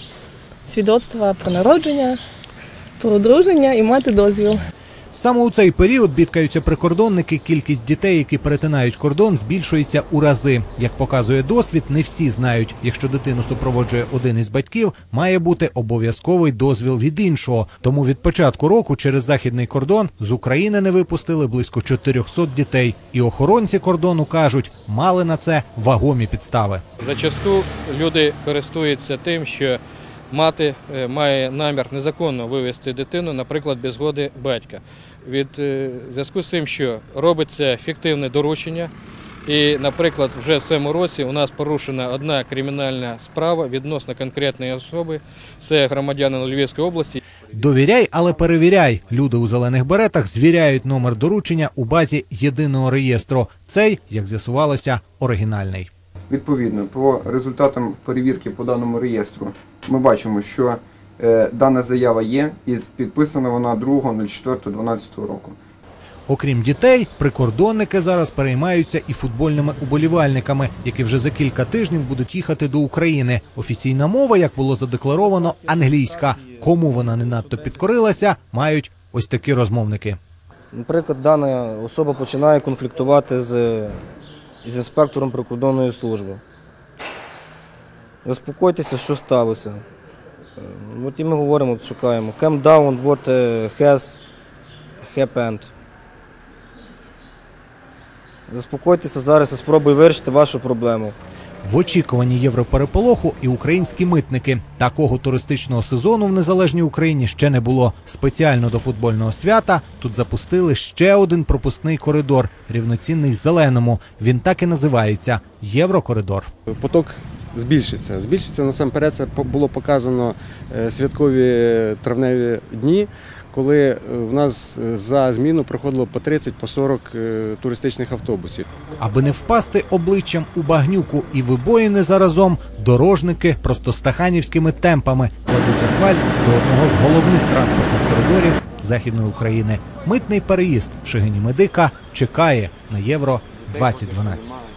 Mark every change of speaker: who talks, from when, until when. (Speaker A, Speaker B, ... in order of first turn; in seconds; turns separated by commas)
Speaker A: 0.7-2.2, Speaker A: 3.0-4.6, Speaker B: 5.1-26.8, Speaker C: 27.0-29.8, Speaker C: 30.3-38.9, Speaker C: 39.5-47.2, Speaker B: 47.5-55.9, Speaker D: 56.3-65.5, Speaker B: 66.3-80.2, Speaker E: 80.7-84.0, Speaker E: 84.6-86.4, Speaker E: 88.2-89.8, Speaker E: 90.6-94.2, Speaker E: 95.0-95.7, Speaker E: 98.5-101.1, Speaker B: 101.6-116.5, Speaker F: 116.7-128.7, Speaker B: 129.0-144.5